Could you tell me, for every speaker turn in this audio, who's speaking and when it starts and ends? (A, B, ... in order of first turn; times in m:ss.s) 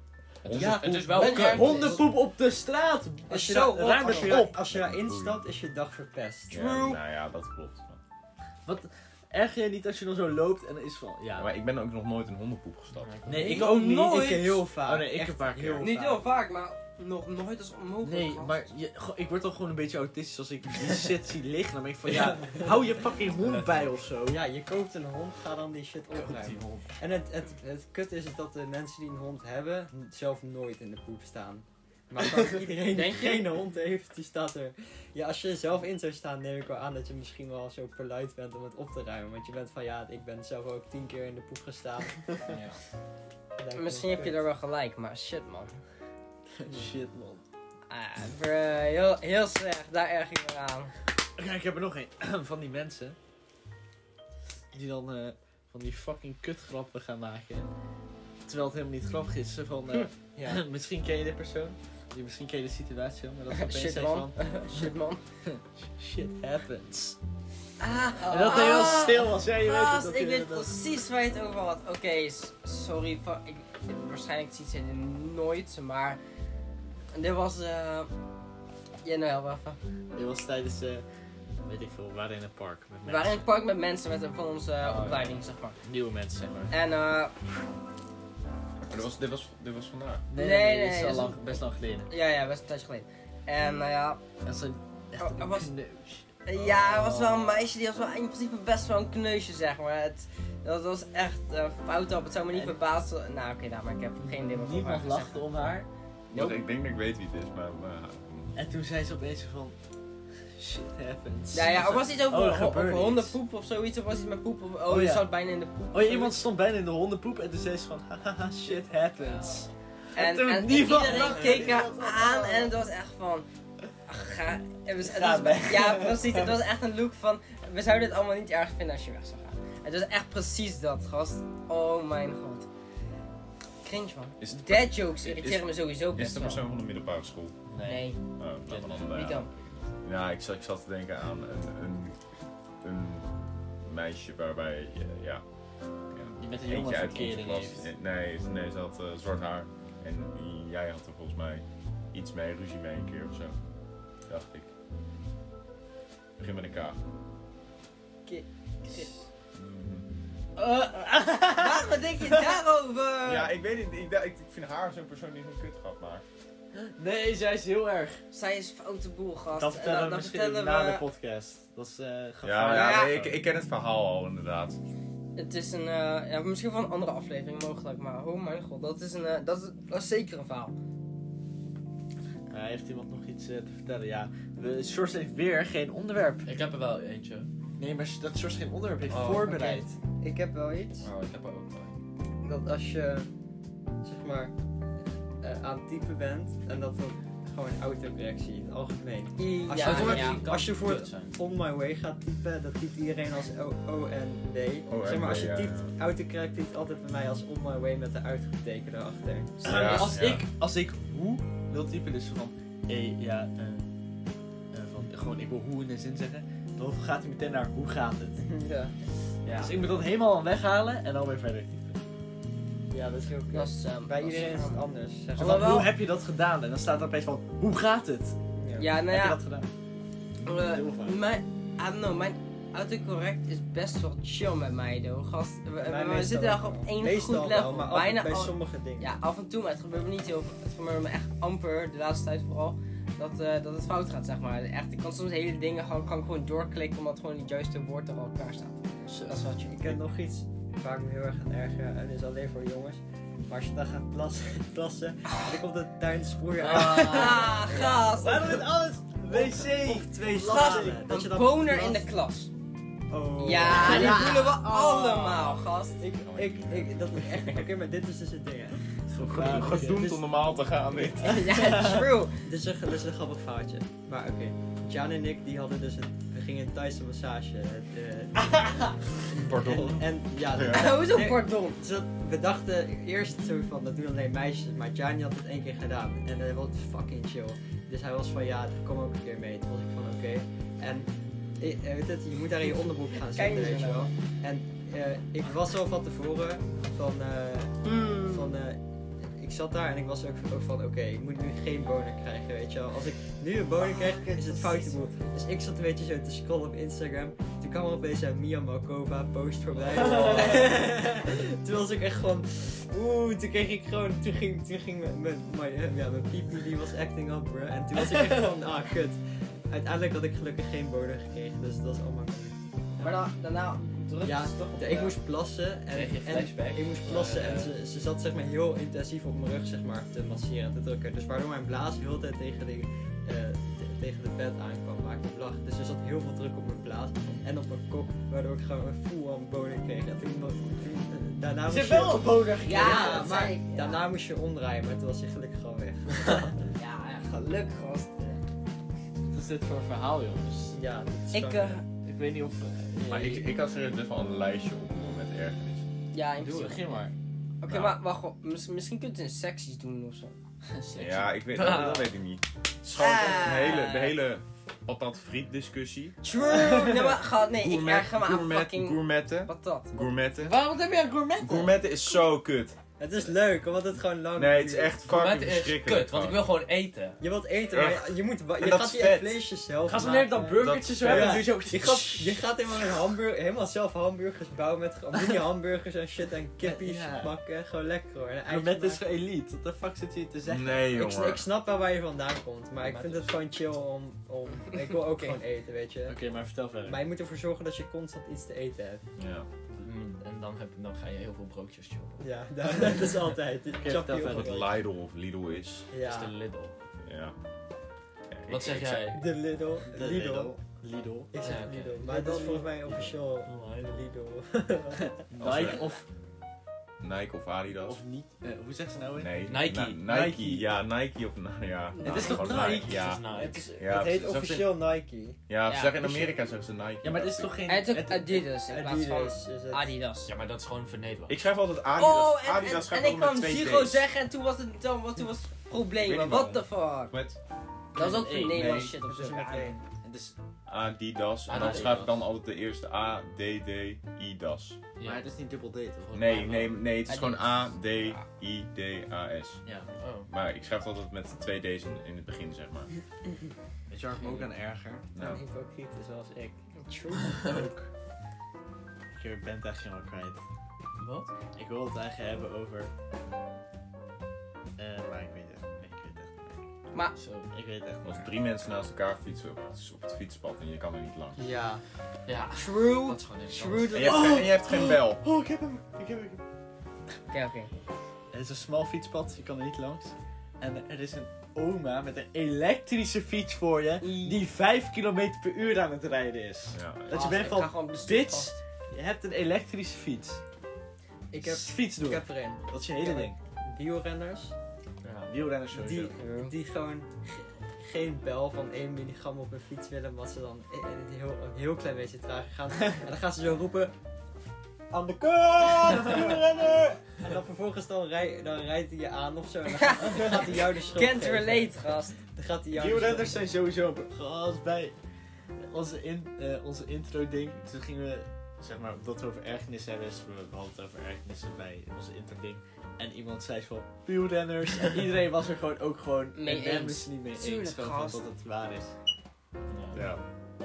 0:00.4-0:02.0 A
0:00.4-0:01.0 B
0:00.6-0:02.0 C
0:01.1-0:04.6 D
0:01.1-0:02.0 E
0:03.3-0:06.6 C
0:03.8-0:04.3 E
0:04.5-0:05.4 B
0:06.5-0:08.0 B
0:06.5-0:07.0 E
0:08.6-0:11.5 D
0:11.4-0:13.2 B
0:13.0-0:13.6 A
0:13.2-0:16.0 D
0:13.3-0:14.6 E
0:13.4-0:16.2 C
0:15.8-0:18.7 E
0:18.0-0:24.4 D
0:24.3-0:42.5 C
0:26.1-0:26.7 A
0:32.9-0:33.5 E
0:42.5-0:42.8 A
0:43.6-0:44.4 C
0:43.7-0:45.8 E
0:46.6-0:47.4 D
0:47.9-0:50.9 E
0:51.4-0:53.2 D
0:54.7-0:57.7 D
0:58.4-1:04.9 D
1:00.4-1:00.6 C
1:03.5-1:05.2 E
1:05.4-1:07.2 D
1:07.8-1:16.2 E
1:08.2-1:10.7 D
1:17.1-1:18.1 E
1:19.0-1:19.8 E
1:20.1-1:21.0 D
1:21.6-1:23.4 D
1:23.0-1:25.8 E
1:24.8-1:26.7 D
1:26.7-1:27.3 E
1:28.9-1:30.2 B
1:30.3-1:32.1 D
1:30.4-1:31.4 E
1:32.1-1:34.2 E
1:34.4-1:37.6 D
1:35.2-1:35.7 E
1:36.4-1:45.4 E
1:42.5-1:42.8 D
1:44.2-1:46.6 D
1:46.3-1:48.6 B
1:48.6-1:49.8 D
1:50.5-1:53.4 D
1:51.5-1:56.4 E
1:54.9-1:55.3 D
1:55.9-2:02.7 D
2:00.1-2:03.4 E
2:04.1-2:12.7 E
2:05.0-2:06.6 D
2:13.8-2:16.6 E
2:14.4-2:17.6 B
2:17.7-2:18.1 D
2:17.8-2:18.2 E
2:18.4-2:22.2 B
2:18.7-2:19.1 A
2:19.1-2:19.5 E
2:22.8-2:25.4 B
2:26.1-2:33.5 B
2:26.4-2:27.9 D
2:34.2-2:34.7 B
2:36.4-2:37.0 B
2:38.2-2:39.1 E
2:39.5-2:40.1 B
2:40.6-2:42.6 D
2:41.5-2:43.6 E
2:43.2-2:46.2 B
2:46.7-2:48.2 D
2:48.3-2:51.0 E
2:49.5-2:53.4 D
2:52.4-2:54.8 B
2:52.7-2:53.1 E
2:55.4-3:00.7 E
3:02.5-3:06.5 D
3:06.4-3:07.5 A
3:07.8-3:09.9 D
3:09.1-3:09.8 A
3:10.2-3:11.1 C
3:11.0-3:12.0 A
3:12.4-3:13.3 C
3:14.0-3:14.5 C
3:15.4-3:29.7 C
3:19.4-3:20.5 E
3:19.7-3:21.4 A
3:24.9-3:25.9 B
3:29.6-3:30.4 B
3:29.6-3:33.8 D
3:29.7-3:30.1 E
3:34.7-3:38.4 D
3:38.4-3:38.9 C
3:39.4-3:39.8 A
3:39.6-3:42.0 D
3:42.9-3:45.8 C
3:43.5-3:45.9 E
3:45.4-3:48.4 D
3:48.6-3:48.9 C
3:48.8-3:49.4 E
3:49.1-3:49.7 D
3:50.4-4:09.7 E
3:50.6-3:51.2 D
3:55.8-3:59.1 C
4:09.6-4:18.1 C
4:16.6-4:17.6 A
4:16.7-4:18.6 E
4:16.7-4:17.4 D
4:18.1-4:21.0 D
4:19.3-4:22.1 C
4:20.4-4:22.5 E
4:23.1-4:25.4 C
4:23.4-4:26.0 E
4:23.7-4:24.6 D
4:25.3-4:27.7 B
4:26.0-4:28.8 C
4:29.1-4:30.0 D
4:29.2-4:31.5 B
4:29.3-5:22.5 C
4:31.2-4:32.4 E
4:31.2-4:32.1 D
4:39.3-4:41.0 B
4:40.7-4:41.8 E
4:52.6-4:54.1 E
4:57.8-4:58.5 E
5:04.4-5:04.9 E
5:09.8-5:10.8 D
5:18.0-5:18.5 D
5:23.0-5:25.2 E
5:24.2-5:46.7 C
5:25.9-5:27.7 A
5:41.6-5:43.4 D
5:42.6-5:44.0 E
5:46.8-5:48.4 E
5:49.3-5:50.8 D
5:50.7-5:51.8 C
5:51.3-5:51.8 E
5:52.0-5:53.5 D
5:53.0-5:55.9 B
5:56.1-5:56.8 E
5:56.4-5:56.8 A
5:56.5-5:57.1 D
5:57.6-6:00.3 E
5:57.6-5:58.0 B
6:00.7-6:02.1 A
6:00.9-6:06.2 B
6:03.0-6:04.2 E
6:06.2-6:10.1 E
6:07.5-6:10.6 B
6:10.4-6:11.6 D
6:10.5-6:11.7 A
6:11.4-6:12.8 B
6:13.0-6:15.0 C
6:14.3-6:16.4 B
6:15.0-6:17.2 A
6:17.2-6:29.0 C
6:17.7-6:19.4 B
6:19.8-6:22.4 D
6:20.5-6:21.6 B
6:26.6-6:27.3 D
6:28.4-6:31.0 D
6:30.5-6:31.4 B
6:30.9-6:36.2 C
6:32.8-6:33.3 A
6:35.1-6:35.4 A
6:36.0-6:37.0 D
6:36.8-6:39.0 C
6:39.2-6:39.5 B
6:39.8-6:42.2 A
6:42.2-6:44.7 C
6:43.7-6:44.6 D
6:44.2-6:45.9 B
6:45.9-6:46.3 C
6:46.0-6:46.7 A
6:47.0-6:47.3 B
6:48.3-6:49.1 B
6:48.5-6:49.2 A
6:49.1-6:50.5 C
6:49.8-6:51.3 D
6:51.3-6:55.3 C
6:51.4-6:52.2 A
6:52.0-6:53.1 D
6:53.4-6:54.0 A
6:55.3-6:56.0 D
6:55.4-6:55.9 B
6:57.0-6:58.0 B
6:57.8-7:00.7 D
6:59.2-7:04.8 B
6:59.5-7:00.0 A
7:01.9-7:02.7 E
7:02.0-7:03.0 D
7:02.3-7:03.6 A
7:03.3-7:05.4 C
7:05.5-7:07.5 B
7:05.6-7:05.9 E
7:07.0-7:08.4 D
7:07.7-7:10.3 E
7:08.7-7:09.9 C
7:10.2-7:11.4 A
7:11.3-7:14.0 B
7:12.0-7:17.1 E
7:16.0-7:17.4 B
7:17.9-7:18.9 D
7:17.9-7:19.7 E
7:19.0-7:19.8 C
7:20.0-7:20.3 D
7:20.7-7:24.8 B
7:21.5-7:22.1 A
7:21.5-7:22.1 D
7:25.0-7:25.3 A
7:25.0-7:26.4 D
7:26.1-7:26.8 A
7:26.1-7:29.6 B
7:27.1-7:28.2 E
7:29.6-7:29.9 D
7:30.0-7:30.3 A
7:30.3-7:32.9 B
7:33.9-7:35.1 D
7:34.2-7:34.5 A
7:35.1-7:35.4 B
7:35.2-7:36.6 C
7:36.8-7:37.4 E
7:37.4-7:37.9 D
7:39.1-7:40.4 D
7:41.0-7:41.3 A
7:41.5-7:42.9 D
7:44.8-7:46.6 D
7:47.2-7:47.5 A
7:47.5-7:48.3 D
7:48.0-7:51.4 B
7:51.4-7:51.8 C
7:52.2-7:54.1 A
7:52.5-7:54.3 E
7:53.9-7:55.2 B
7:54.0-7:56.4 D
7:57.3-7:57.7 E
7:58.3-8:10.4 D
8:04.0-8:04.4 E
8:06.7-8:07.4 B
8:07.1-8:08.6 E
8:11.3-8:14.5 C
8:11.4-8:13.4 D
8:15.0-8:15.3 A
8:15.3-8:16.1 D
8:15.7-8:23.9 C
8:16.2-8:16.5 E
8:24.9-8:33.4 C
8:29.8-8:32.2 E
8:32.7-8:34.9 D
8:35.7-8:48.9 D
8:46.3-8:48.2 E
8:49.7-8:50.0 A
8:49.9-8:50.2 B